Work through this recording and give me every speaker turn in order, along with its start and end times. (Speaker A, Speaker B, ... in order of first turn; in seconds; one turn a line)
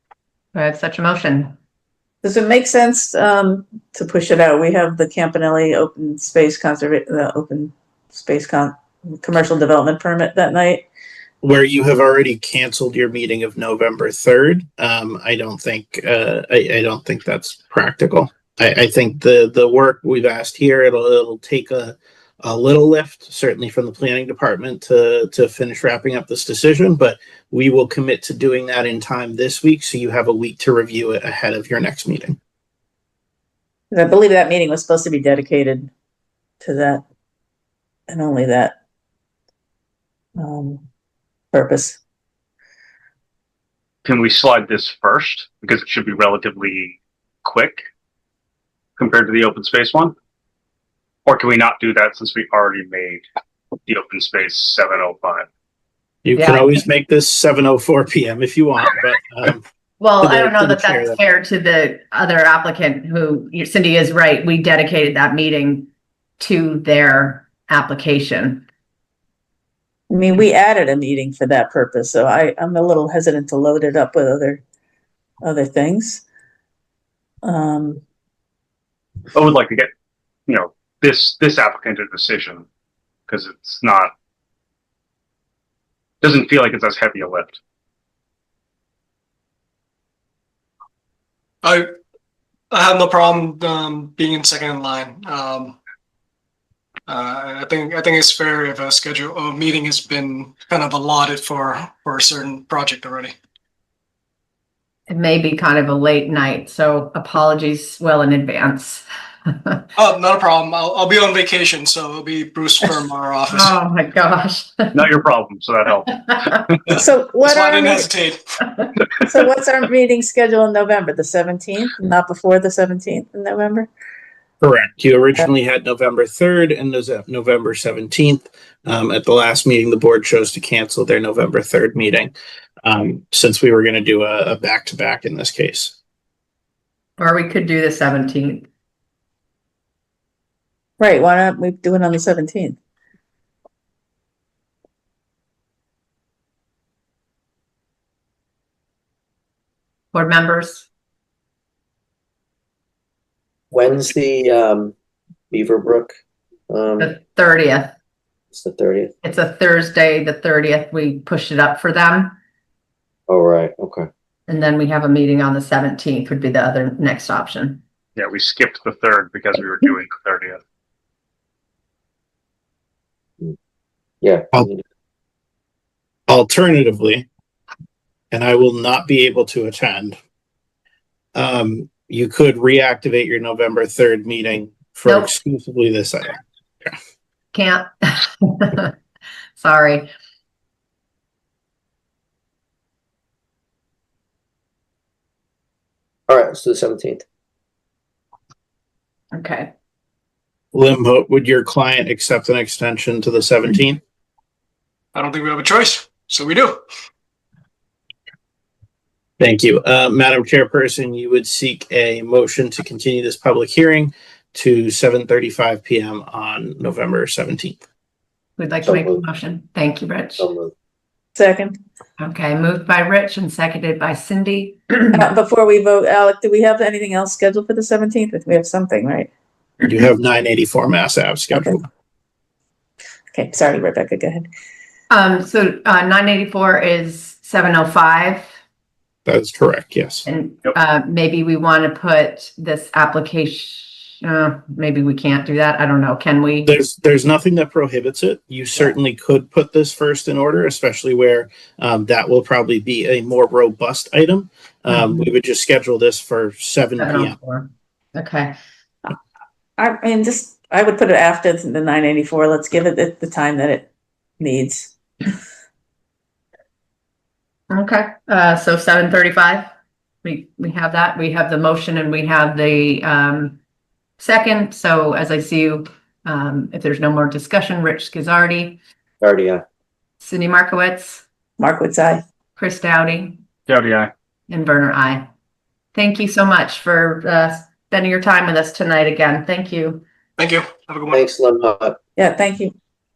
Speaker A: 0.5-1.5
Speaker B: 2.2-10.9
Speaker C: 11.4-32.4
Speaker B: 33.9-35.9
Speaker B: 36.6-37.0
Speaker B: 38.1-38.8
Speaker B: 40.4-40.8
Speaker B: 41.5-42.0
Speaker D: 44.0-47.9
Speaker D: 49.0-50.1
Speaker D: 51.3-53.2
Speaker D: 53.9-55.5
Speaker C: 56.2-59.6
Speaker A: 56.4-56.8
Speaker A: 60.0-68.7
Speaker C: 60.2-61.2
Speaker B: 70.1-74.6
Speaker B: 75.4-76.2
Speaker B: 77.4-78.0
Speaker D: 79.3-79.9
Speaker D: 80.5-82.7
Speaker D: 83.3-84.1
Speaker D: 86.2-87.6
Speaker E: 91.6-91.9
Speaker E: 92.7-95.8
Speaker E: 97.1-103.4
Speaker A: 105.1-109.8
Speaker E: 110.0-113.8
Speaker A: 113.5-115.1
Speaker D: 115.0-117.0
Speaker A: 116.2-116.6
Speaker B: 116.9-118.1
Speaker E: 117.4-118.4
Speaker B: 119.3-123.9
Speaker C: 124.6-132.3
Speaker C: 132.8-135.9
Speaker A: 137.2-138.7
Speaker B: 141.0-142.8
Speaker A: 150.1-150.9
Speaker F: 153.7-154.9
Speaker F: 155.5-156.1
Speaker F: 156.7-157.1
Speaker A: 157.0-157.9
Speaker F: 158.5-159.1
Speaker A: 159.2-162.3
Speaker F: 163.3-164.1
Speaker A: 164.5-167.8
Speaker D: 168.2-170.6
Speaker F: 174.2-174.8
Speaker C: 176.3-177.3
Speaker C: 178.3-180.2
Speaker C: 181.3-186.4
Speaker A: 185.1-185.3
Speaker A: 187.5-188.9
Speaker A: 189.6-190.1
Speaker F: 196.3-197.2
Speaker A: 199.3-199.7
Speaker C: 200.7-204.0
Speaker E: 205.2-206.8
Speaker C: 209.4-217.8
Speaker A: 218.6-220.5
Speaker F: 218.8-219.2
Speaker F: 220.4-220.7
Speaker B: 221.4-221.8
Speaker A: 222.2-225.3
Speaker B: 225.1-229.3
Speaker C: 229.8-231.8
Speaker B: 231.5-231.8
Speaker B: 233.3-234.5
Speaker A: 235.1-238.5
Speaker C: 239.3-240.3
Speaker A: 240.3-246.8
Speaker C: 246.7-257.4
Speaker A: 254.9-255.2
Speaker A: 257.0-258.6
Speaker B: 259.8-264.9
Speaker A: 267.7-269.7
Speaker A: 270.2-273.6
Speaker A: 274.2-278.8
Speaker F: 279.2-279.6
Speaker A: 280.2-281.2
Speaker B: 281.6-282.2
Speaker A: 282.6-283.4
Speaker D: 283.7-284.1
Speaker A: 284.5-285.3
Speaker A: 285.9-290.0
Speaker E: 290.4-291.3
Speaker F: 291.1-292.0
Speaker B: 292.2-292.7